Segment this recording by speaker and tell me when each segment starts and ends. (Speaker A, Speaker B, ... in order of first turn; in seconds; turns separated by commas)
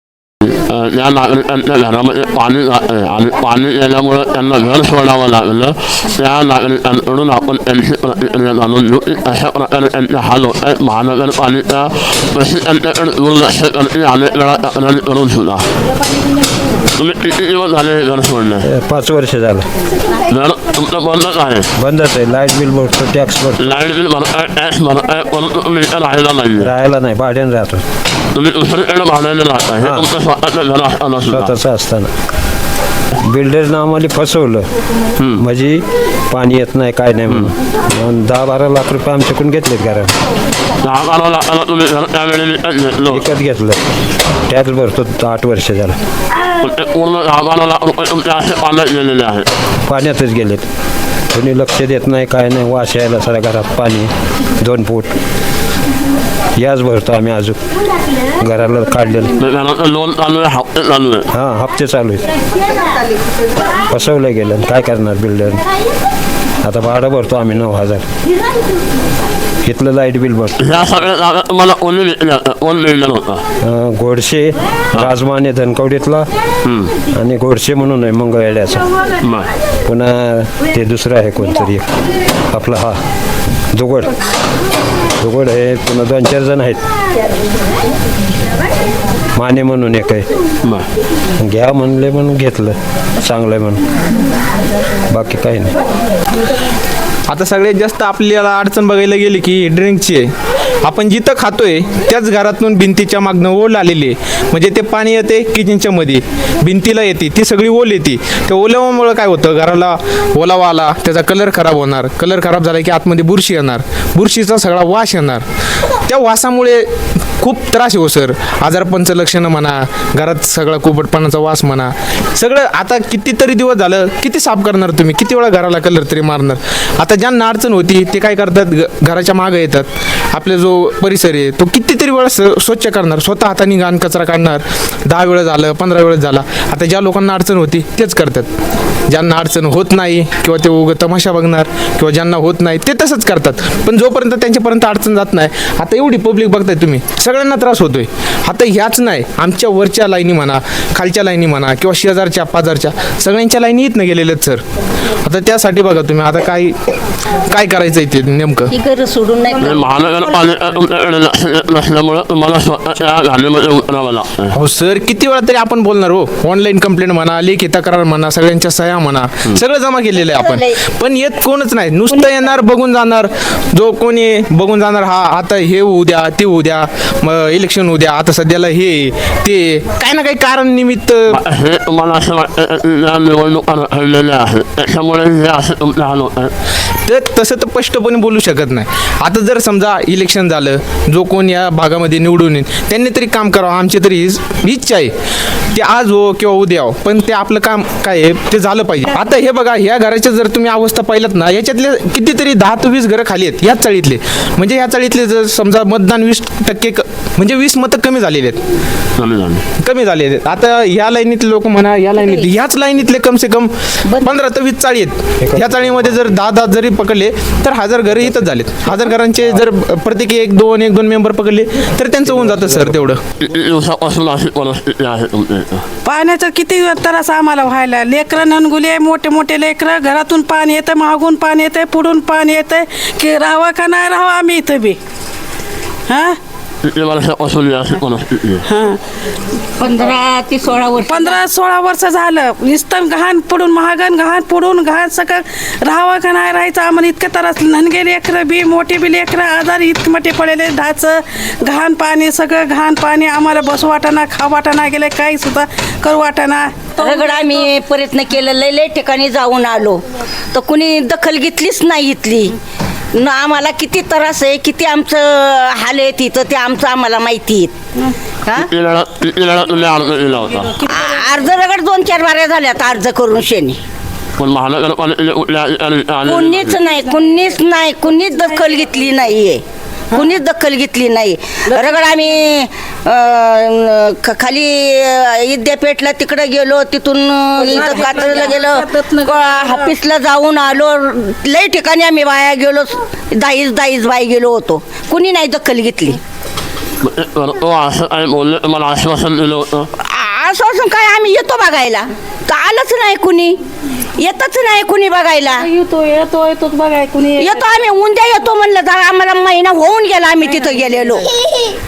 Speaker A: 0.5-15.7, Speaker A: 16.9-18.7, Speaker B: 18.6-19.7, Speaker A: 20.3-21.7, Speaker B: 21.8-23.6, Speaker A: 23.6-26.7, Speaker B: 26.6-27.8, Speaker A: 28.3-31.6, Speaker B: 29.8-30.1, Speaker B: 31.3-32.1, Speaker B: 33.2-34.7, Speaker A: 35.2-35.4, Speaker B: 35.4-40.1, Speaker A: 40.8-43.3, Speaker B: 43.1-43.8, Speaker B: 44.5-46.0, Speaker A: 46.6-49.5, Speaker B: 49.9-50.7, Speaker B: 51.3-55.1, Speaker B: 56.5-57.6, Speaker B: 58.4-59.3, Speaker A: 59.4-61.3, Speaker B: 61.3-62.3, Speaker B: 63.9-65.6, Speaker B: 66.6-68.1, Speaker B: 69.6-70.6, Speaker A: 70.6-73.4, Speaker B: 73.6-76.3, Speaker A: 76.7-76.9, Speaker B: 77.1-78.9, Speaker A: 79.2-79.5, Speaker B: 79.8-81.9, Speaker B: 82.5-83.0, Speaker B: 83.7-84.2, Speaker B: 85.2-86.8, Speaker B: 89.4-90.3, Speaker B: 91.4-93.8, Speaker B: 95.1-95.8, Speaker C: 97.3-100.3, Speaker C: 100.8-115.4, Speaker C: 116.1-116.9, Speaker C: 117.4-138.5, Speaker C: 139.1-154.6, Speaker C: 155.2-156.8, Speaker C: 157.5-158.7, Speaker D: 158.7-159.9, Speaker A: 159.6-164.5, Speaker C: 164.5-181.4, Speaker D: 170.2-170.8, Speaker A: 181.3-186.5, Speaker C: 187.1-195.1, Speaker C: 195.7-208.6, Speaker A: 209.2-209.6, Speaker C: 209.8-223.2, Speaker D: 214.1-214.3, Speaker B: 215.4-216.3, Speaker B: 222.2-223.1, Speaker A: 223.4-225.8, Speaker E: 226.1-235.0, Speaker E: 236.1-236.4, Speaker A: 236.8-238.6, Speaker E: 238.7-239.0, Speaker D: 239.8-241.4, Speaker E: 241.1-257.7, Speaker D: 257.0-262.6, Speaker D: 263.1-267.8, Speaker D: 268.4-268.7, Speaker A: 268.6-270.8, Speaker E: 270.6-271.3, Speaker D: 270.8-273.8, Speaker A: 274.4-276.8, Speaker D: 276.3-296.2, Speaker E: 278.4-278.8, Speaker E: 287.6-289.9, Speaker A: 297.0-299.9, Speaker D: 300.0-303.6, Speaker D: 304.2-305.7, Speaker E: 305.6-307.6, Speaker D: 307.4-311.8